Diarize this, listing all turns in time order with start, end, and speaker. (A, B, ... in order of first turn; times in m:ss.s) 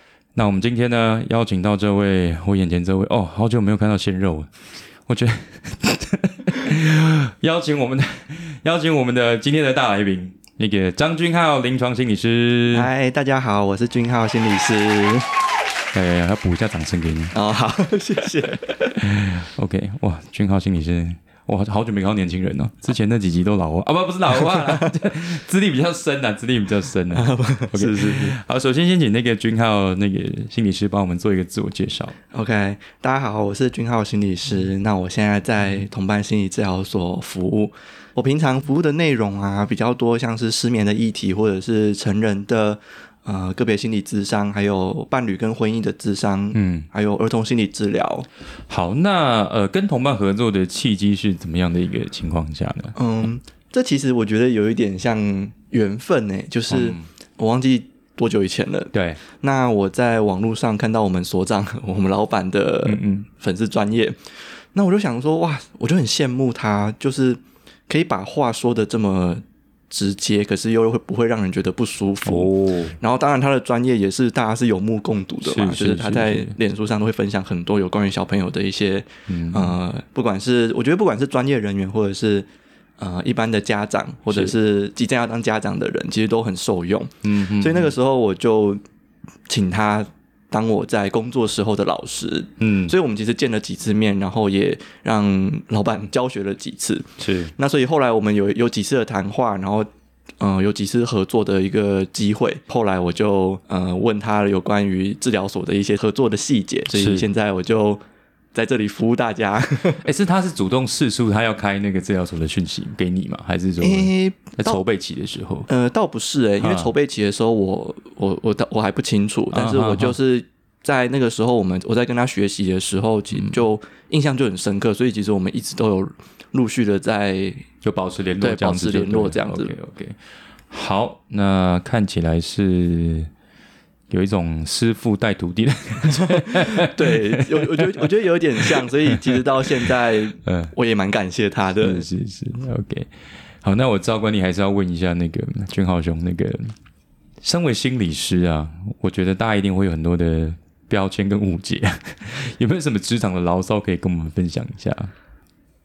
0:00.3-0:04.5 A
0:05.1-0:12.9 A
0:12.7-0:15.4 B
0:15.9-0:17.4 A
0:17.3-0:19.0 B
0:19.0-0:32.1 A
0:24.4-0:24.9 B
0:27.1-0:28.4 B
0:32.3-0:48.3 B
0:46.5-0:46.9 A
0:48.7-0:53.0 A
0:52.9-1:04.2 B
0:56.7-0:57.0 A
0:58.9-0:59.2 A
1:02.8-1:03.3 A
1:04.7-1:22.5 B
1:12.2-1:13.0 A
1:15.4-1:16.6 A
1:19.3-1:19.8 A
1:23.0-1:28.8 B
1:24.3-1:24.5 A
1:27.2-1:27.9 A
1:29.5-1:39.9 B
1:32.6-1:32.9 A
1:37.2-1:37.5 A
1:40.4-1:48.0 B
1:46.9-1:47.2 A
1:48.5-1:50.0 B
1:50.0-1:55.7 A
1:53.8-1:54.8 B
1:55.7-2:07.6 B
1:56.6-1:56.9 A
1:59.5-2:00.2 A
2:03.3-2:03.6 A
2:07.8-2:10.2 A
2:08.4-2:09.8 B
2:10.7-2:13.3 A
2:14.1-2:18.1 A
2:16.0-2:22.0 B
2:18.6-2:19.2 A
2:20.4-2:20.7 A
2:21.8-2:23.1 A
2:23.6-2:26.7 A
2:27.4-2:35.1 A